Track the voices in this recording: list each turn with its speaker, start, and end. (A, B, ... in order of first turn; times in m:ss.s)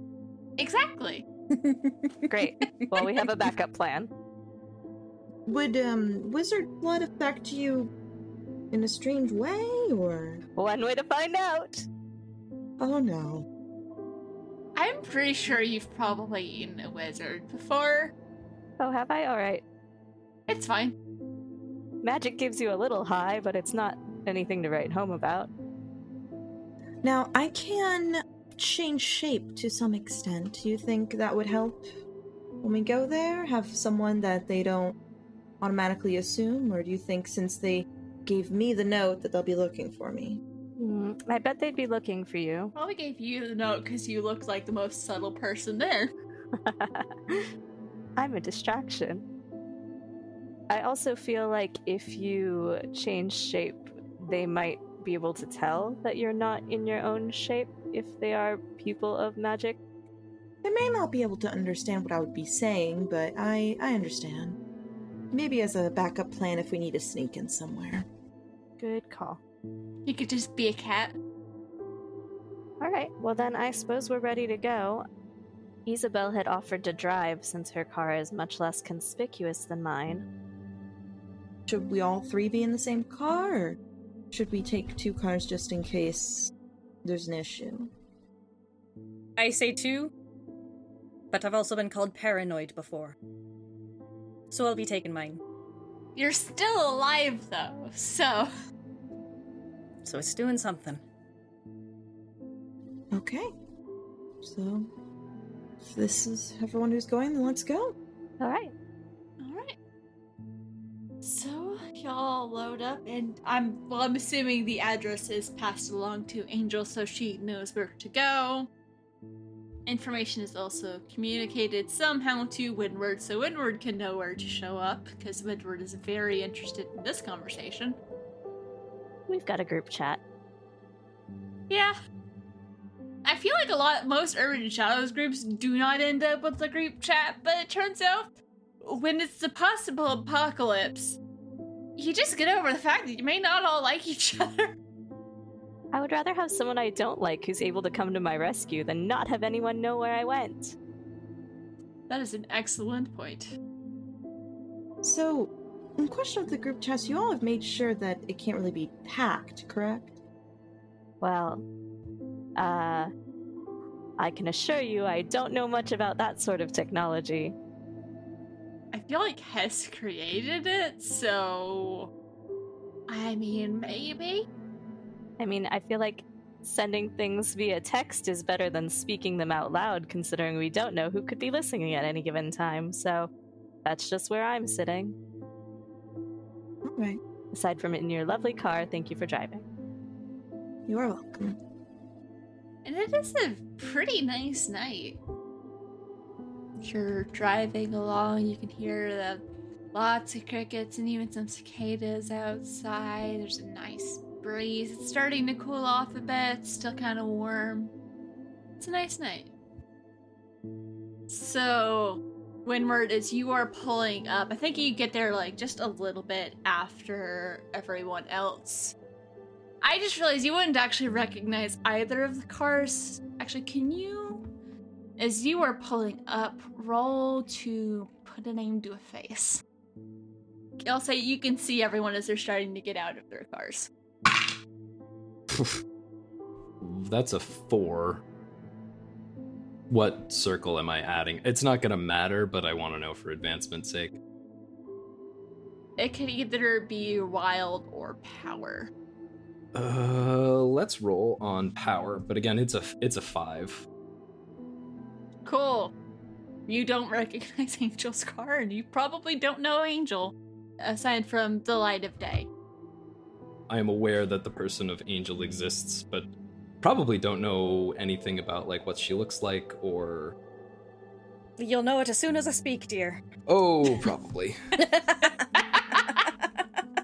0:00.6-0:01.2 A
0:01.6-0:02.3 B
0:02.3-0:04.1 C
0:05.5-0:07.9 D
0:08.7-0:10.4 D
0:10.6-0:11.9 C
0:12.8-0:13.4 D
0:14.8-0:18.1 A
0:18.8-0:19.6 C
0:20.5-0:20.9 A
0:22.0-0:25.5 C
0:27.0-0:31.8 D
0:32.6-0:35.0 D
0:35.6-0:40.4 D
0:40.8-0:42.7 C
0:42.7-0:46.1 A
0:46.6-0:47.5 C
0:48.2-0:49.2 C
0:50.7-0:59.8 C
1:00.6-1:04.6 D
1:05.3-1:08.0 D
1:08.8-1:09.4 C
1:10.0-1:11.1 A
1:12.8-1:15.0 C
1:15.8-1:20.2 C
1:21.7-1:23.8 D
1:24.3-1:26.5 D
1:27.0-1:27.9 D
1:29.4-1:30.1 B
1:31.3-1:33.2 B
1:34.5-1:35.4 B
1:36.1-1:38.5 A
1:40.0-1:41.0 B
1:43.1-1:43.5 D
1:44.4-1:44.9 D
1:45.8-1:47.9 D
1:48.4-1:48.7 C
1:49.4-1:49.8 A
1:51.2-1:58.7 A
1:59.8-2:08.0 A
2:09.3-2:10.2 C
2:11.7-2:12.0 A
2:13.2-2:18.3 A
2:18.8-2:21.2 A
2:22.0-2:24.8 A
2:25.9-2:30.8 C
2:32.1-2:33.5 A
2:35.0-2:40.1 D
2:41.2-2:41.6 C
2:42.6-2:43.1 C
2:44.2-2:47.5 C
2:48.9-2:52.1 A
2:53.1-2:54.4 A
2:55.4-3:03.3 C
3:03.8-3:05.2 C
3:06.8-3:07.2 D
3:07.5-3:09.6 C
3:10.9-3:11.6 D
3:12.8-3:15.2 A
3:16.8-3:19.4 A
3:19.9-3:27.9 A
3:28.8-3:29.5 A
3:31.3-3:38.9 A
3:39.8-3:44.4 A
3:45.2-3:49.6 A
3:50.8-3:53.9 A
3:55.5-3:55.8 E
3:56.8-3:58.2 E
3:59.9-4:04.2 E
4:06.0-4:08.9 A
4:09.7-4:13.8 E
4:15.4-4:15.9 A
4:16.7-4:22.5 A
4:23.7-4:26.3 E
4:26.8-4:30.4 E
4:31.6-4:33.2 B
4:33.5-4:34.6 E
4:34.8-4:35.6 B
4:36.1-4:36.6 B